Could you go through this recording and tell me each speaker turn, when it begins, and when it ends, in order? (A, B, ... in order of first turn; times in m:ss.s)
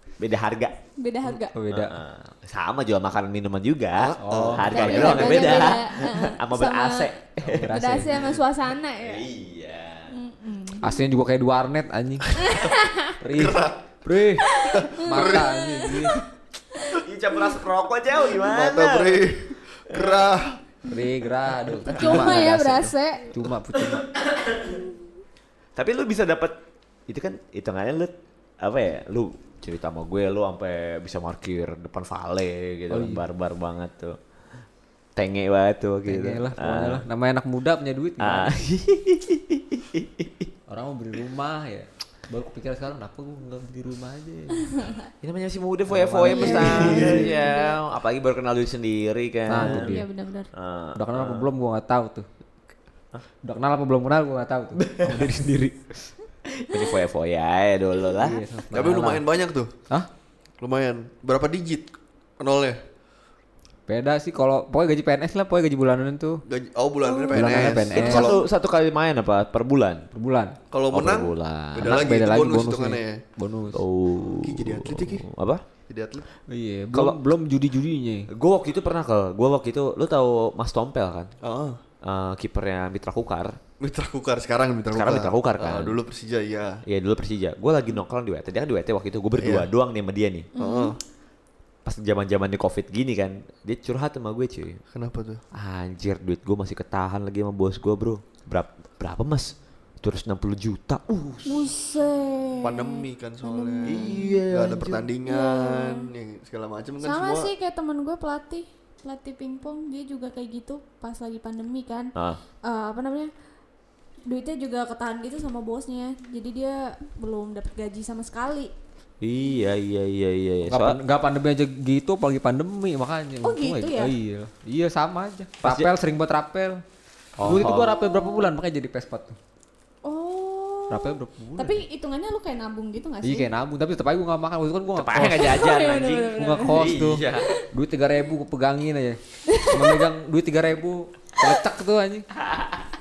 0:00.2-0:00.7 A
0:01.0-0:01.5 B
0:01.5-0:02.0 C
0:01.7-0:08.4 A
0:04.0-0:05.8 D
0:04.2-0:05.6 C
0:04.7-0:07.1 B
0:07.4-0:08.2 C
0:07.7-0:09.2 B
0:09.0-0:10.1 A
0:10.1-0:10.9 B
0:10.8-0:12.3 C
0:12.4-0:13.1 B
0:13.2-0:16.2 C
0:13.3-0:13.8 D
0:14.6-0:15.7 D
0:14.6-0:16.1 B
0:17.0-0:19.2 A
0:18.4-0:20.6 D
0:19.9-0:20.2 A
0:20.9-0:24.1 C
0:21.8-0:23.3 B
0:22.0-0:22.3 A
0:23.8-0:24.8 A
0:25.8-0:26.6 A
0:27.1-0:34.2 A
0:32.9-0:33.2 C
0:35.2-0:37.0 A
0:36.1-0:38.6 C
0:38.2-0:40.5 A
0:40.7-0:44.7 C
0:45.2-0:50.0 A
0:45.9-0:47.3 C
0:46.2-0:47.8 B
0:46.9-0:47.2 D
0:49.5-0:50.1 C
0:49.6-0:50.5 B
0:50.5-0:51.5 A
0:51.0-0:52.3 C
0:53.4-0:55.9 C
0:54.8-0:55.3 A
0:56.5-0:58.4 A
0:58.2-0:59.2 C
0:58.7-0:59.7 D
1:00.6-1:01.9 D
1:02.4-1:02.8 D
1:03.9-1:06.4 C
1:06.5-1:08.4 D
1:07.0-1:07.4 B
1:07.3-1:08.3 C
1:07.6-1:10.1 A
1:10.1-1:10.6 C
1:10.7-1:13.2 D
1:10.9-1:12.0 A
1:11.8-1:13.8 C
1:13.7-1:15.6 A
1:14.4-1:15.2 D
1:15.9-1:16.2 D
1:16.5-1:18.3 C
1:18.3-1:21.3 A
1:21.4-1:21.8 D
1:22.0-1:23.6 A
1:23.8-1:26.8 D
1:25.0-1:26.0 A
1:26.9-1:30.5 A
1:29.4-1:29.7 D
1:30.6-1:30.9 B
1:30.6-1:31.0 D
1:31.9-1:34.8 A
1:34.9-1:35.4 D
1:35.5-1:41.7 A
1:41.4-1:44.2 B
1:42.6-1:47.5 D
1:43.8-1:45.1 A
1:45.3-1:46.1 B
1:47.0-1:52.1 B
1:52.6-1:53.3 B
1:54.3-1:58.7 B
1:59.2-2:01.0 A
2:00.7-2:06.8 C
2:03.4-2:04.1 B
2:05.6-2:05.9 A
2:07.4-2:08.0 A
2:07.4-2:09.4 C
2:07.5-2:08.4 B
2:10.0-2:13.5 B
2:10.9-2:11.8 C
2:13.2-2:15.6 C
2:15.0-2:17.5 A
2:15.4-2:16.8 B
2:16.4-2:22.3 C
2:19.5-2:19.9 B